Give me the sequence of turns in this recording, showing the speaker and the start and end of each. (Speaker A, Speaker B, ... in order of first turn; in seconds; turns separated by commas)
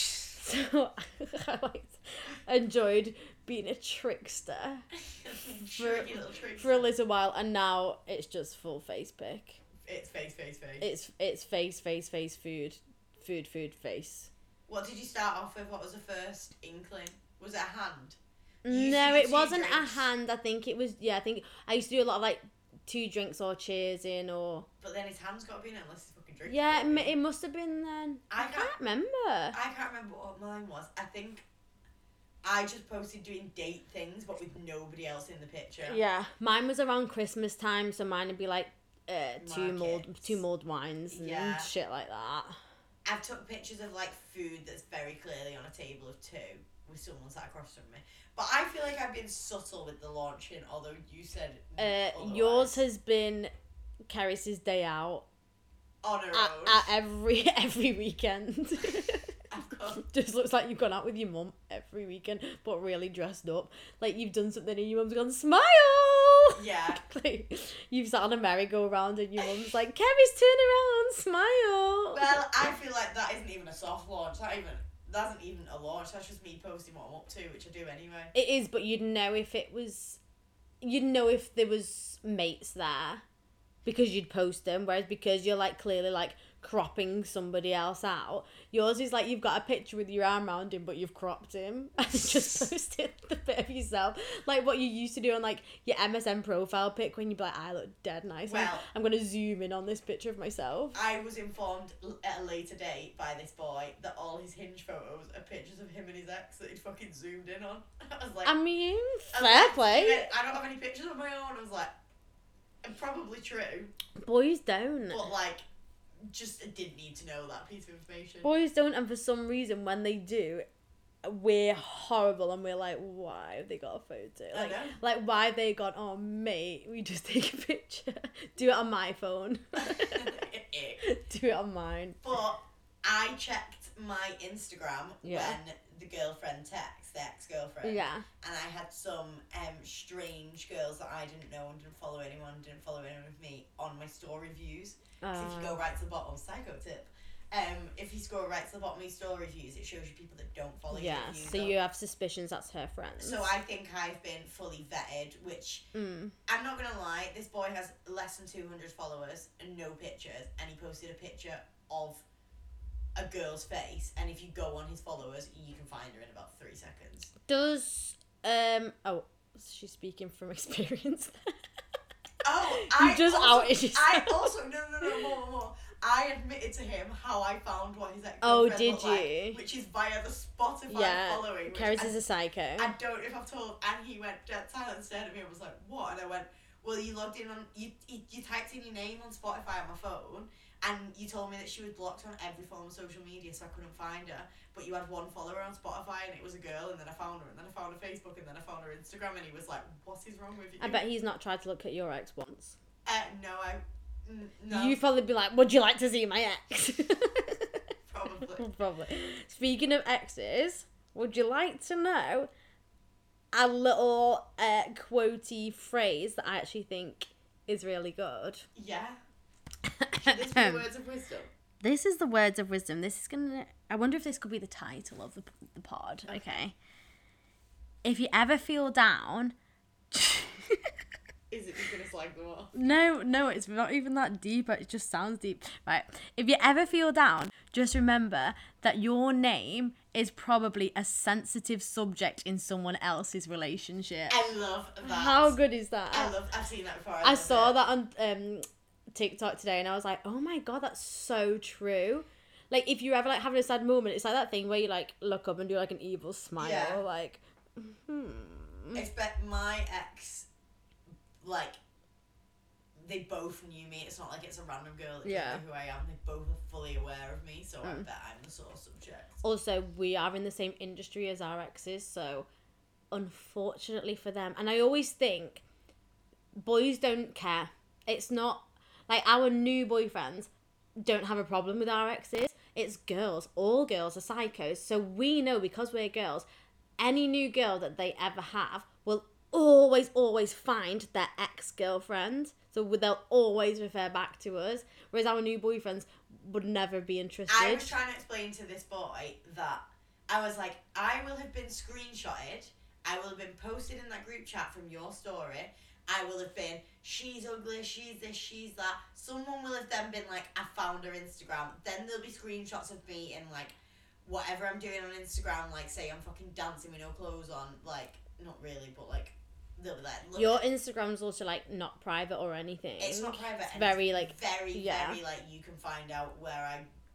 Speaker A: 0.3-4.8, Speaker B: 5.1-6.9, Speaker A: 5.7-9.6, Speaker B: 9.8-10.9, Speaker A: 10.8-14.3, Speaker B: 14.7-20.1, Speaker A: 18.6-24.7, Speaker B: 24.8-27.1, Speaker A: 26.5-29.6, Speaker B: 28.3-28.7, Speaker B: 29.5-31.4, Speaker B: 32.4-36.0, Speaker A: 35.8-42.6, Speaker B: 39.4-40.4, Speaker B: 41.1-41.7, Speaker B: 43.0-52.8, Speaker A: 51.8-53.5, Speaker A: 54.1-55.3, Speaker B: 56.0-56.9, Speaker A: 56.3-59.3, Speaker B: 59.5-60.0, Speaker A: 60.0-72.4, Speaker B: 66.5-67.0, Speaker B: 69.4-69.7, Speaker B: 72.1-78.3, Speaker A: 78.3-80.2, Speaker A: 80.8-83.2, Speaker A: 83.8-101.0, Speaker B: 98.5-98.9, Speaker B: 100.9-108.5, Speaker A: 108.5-110.3, Speaker B: 109.3-111.9, Speaker B: 112.8-113.9, Speaker A: 114.2-115.3, Speaker B: 115.1-115.7, Speaker B: 116.2-118.5, Speaker A: 118.4-120.7, Speaker A: 121.2-130.3, Speaker B: 124.5-125.0, Speaker B: 129.8-131.0, Speaker A: 131.0-132.2, Speaker B: 132.2-151.8, Speaker A: 135.2-135.6, Speaker A: 137.8-138.3, Speaker A: 145.2-145.8, Speaker A: 150.9-153.5, Speaker B: 153.2-155.9, Speaker A: 155.9-156.3, Speaker B: 156.5-162.2, Speaker B: 163.2-167.3, Speaker A: 167.5-171.5, Speaker B: 172.4-182.2, Speaker A: 172.7-174.5, Speaker A: 178.4-179.6, Speaker A: 180.9-182.9, Speaker B: 182.8-201.0, Speaker A: 200.8-202.8, Speaker B: 203.1-205.0, Speaker A: 204.7-207.8, Speaker B: 208.1-208.7, Speaker A: 208.6-212.5, Speaker A: 213.5-218.7, Speaker B: 218.8-219.2, Speaker A: 219.8-220.8, Speaker B: 220.2-221.5, Speaker A: 221.8-226.8, Speaker B: 226.3-226.5, Speaker A: 228.0-229.6, Speaker A: 230.1-230.9, Speaker B: 231.5-232.7, Speaker A: 232.7-244.4, Speaker B: 244.3-245.6, Speaker A: 245.0-246.3, Speaker B: 246.1-247.7, Speaker A: 247.2-259.0, Speaker B: 256.6-257.0, Speaker B: 258.9-260.5, Speaker B: 261.4-261.8, Speaker B: 263.0-269.4, Speaker A: 265.2-265.6, Speaker A: 269.4-272.5, Speaker A: 273.1-275.6, Speaker A: 276.6-286.5, Speaker A: 287.0-298.0, Speaker B: 297.5-320.6, Speaker A: 320.4-325.2, Speaker B: 323.0-326.9